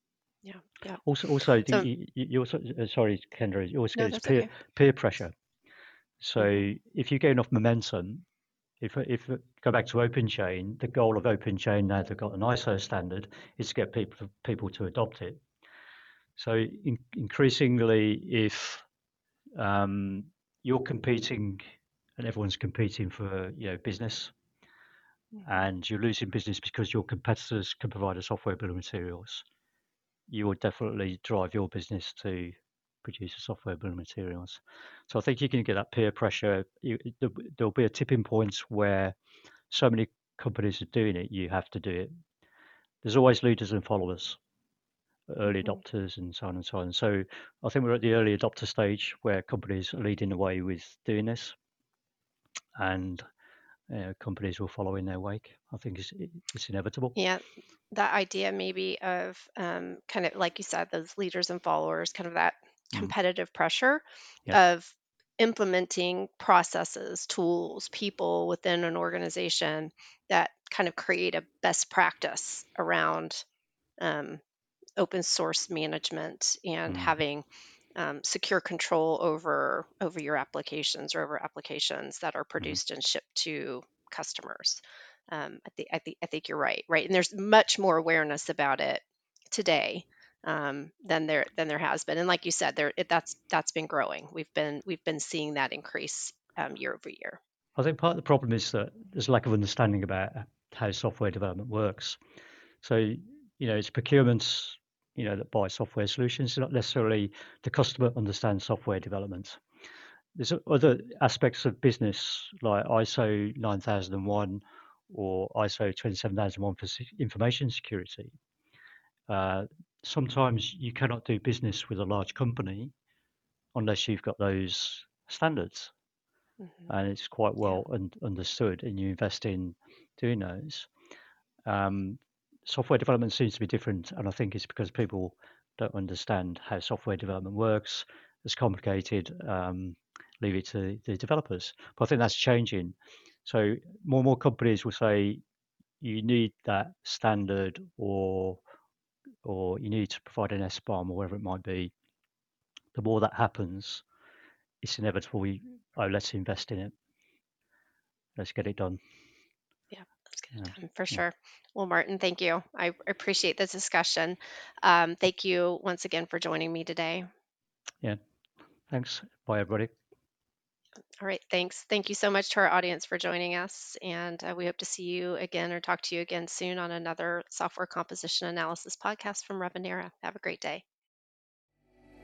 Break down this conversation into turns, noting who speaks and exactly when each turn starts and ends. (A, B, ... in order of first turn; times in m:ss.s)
0:00.4-0:01.0 A
0:01.0-0:05.3 B
0:03.9-0:04.5 A
0:06.2-0:08.2 B
0:06.4-0:06.6 A
0:08.8-0:15.4 B
0:16.4-0:18.8 B
0:19.6-0:21.6 B
0:22.2-0:24.3 B
0:25.4-0:29.4 B
0:30.3-0:39.1 B
0:39.7-0:42.1 B
0:43.0-0:44.4 B
0:45.3-0:51.5 B
0:52.8-0:53.2 B
0:53.9-0:57.1 B
0:57.1-1:13.4 A
1:14.0-1:14.4 A
1:15.0-1:37.4 A
1:16.9-1:17.2 B
1:37.8-1:42.2 B
1:42.8-1:49.6 B
1:50.3-1:58.3 B
1:59.3-2:02.9 B
2:03.7-2:05.9 B
2:06.9-2:10.9 B
2:11.7-2:25.4 B
2:26.0-2:28.6 B
2:29.4-2:31.9 B
2:32.9-2:34.0 B
2:34.8-2:36.9 B
2:38.4-2:39.0 B
2:39.9-2:47.2 A
2:40.5-2:41.2 B
2:48.9-2:49.9 B
2:51.2-3:00.8 A